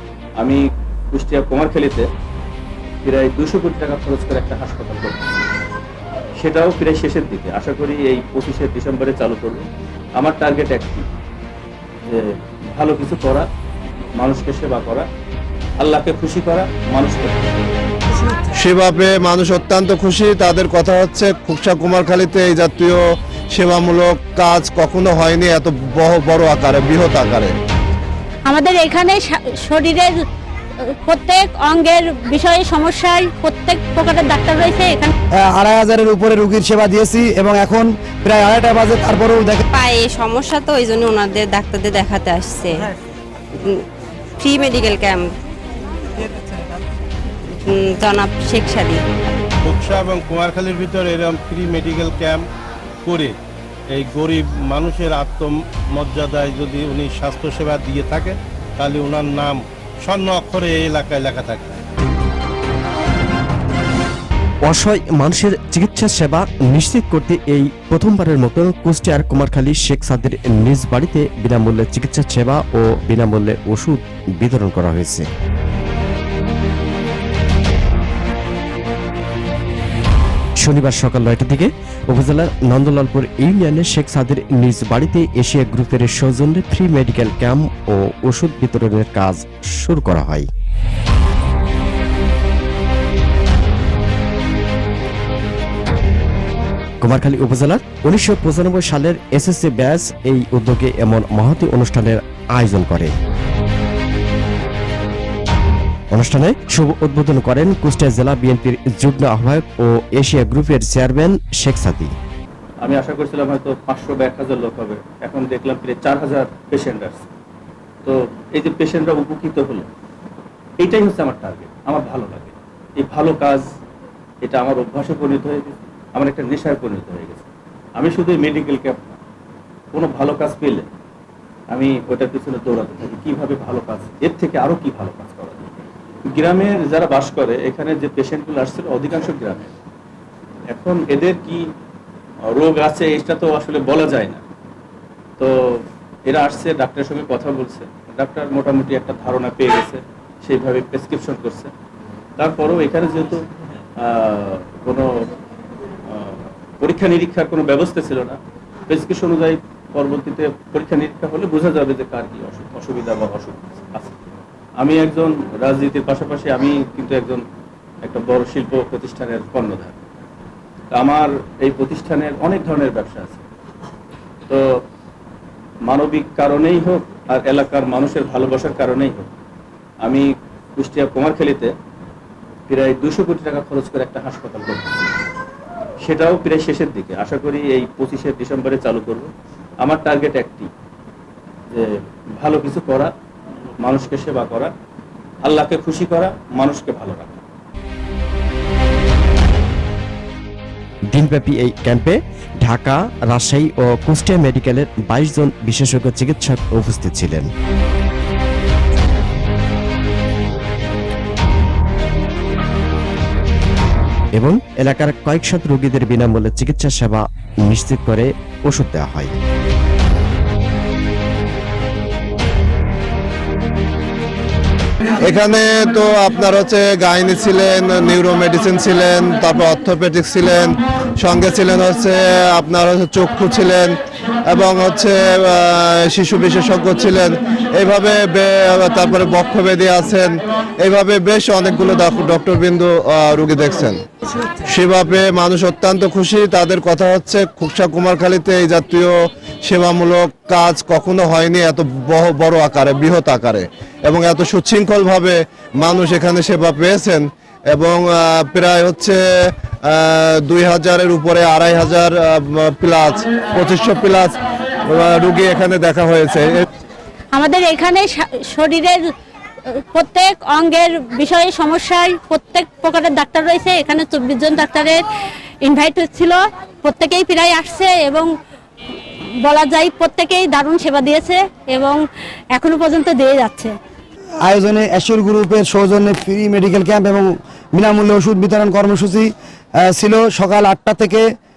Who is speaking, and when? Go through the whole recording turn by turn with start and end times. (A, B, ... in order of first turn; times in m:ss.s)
0:00.4-0:02.1 A
0:03.0-0:05.5 A
0:06.4-0:09.7 A
0:10.2-0:11.0 A
0:12.0-0:13.4 A
0:14.2-0:15.1 A
0:15.8-0:17.6 A
0:18.6-0:27.5 B
0:28.4-0:30.1 C
0:31.0-0:35.1 C
0:35.4-0:39.6 D
0:39.7-0:42.8 E
0:43.5-0:43.8 E
0:44.4-0:45.3 E
0:47.5-0:49.0 E
0:49.6-0:52.4 F
0:53.0-0:53.3 F
0:53.9-1:01.8 F
1:04.6-1:15.3 G
1:20.6-1:30.5 G
1:37.0-1:43.1 G
1:46.1-1:52.1 G
1:52.8-1:57.3 A
1:58.0-1:59.9 A
2:00.8-2:03.7 A
2:04.4-2:09.2 A
2:09.9-2:10.9 A
2:11.7-2:19.7 A
2:20.7-2:21.7 A
2:22.5-2:24.4 A
2:25.4-2:31.7 A
2:32.4-2:33.4 A
2:34.0-2:35.3 A
2:36.1-2:44.2 A
2:44.8-2:47.4 A
2:48.0-2:50.0 A
2:51.0-2:53.4 A
2:55.8-2:59.3 A
3:00.0-3:01.7 A
3:02.7-3:05.1 A
3:06.0-3:09.3 A
3:09.8-3:10.7 A
3:11.7-3:13.1 A
3:13.8-3:14.7 A
3:15.4-3:17.4 A
3:21.1-3:27.5 G
3:34.3-3:39.3 G
3:45.2-4:04.0 B
4:04.6-4:19.2 B
4:19.8-4:26.6 B
4:27.3-4:29.0 C
4:29.7-4:35.0 C
4:35.6-4:38.3 C
4:39.4-4:42.0 C
4:42.5-4:43.7 C
4:44.4-4:49.3 D
4:49.8-4:51.3 D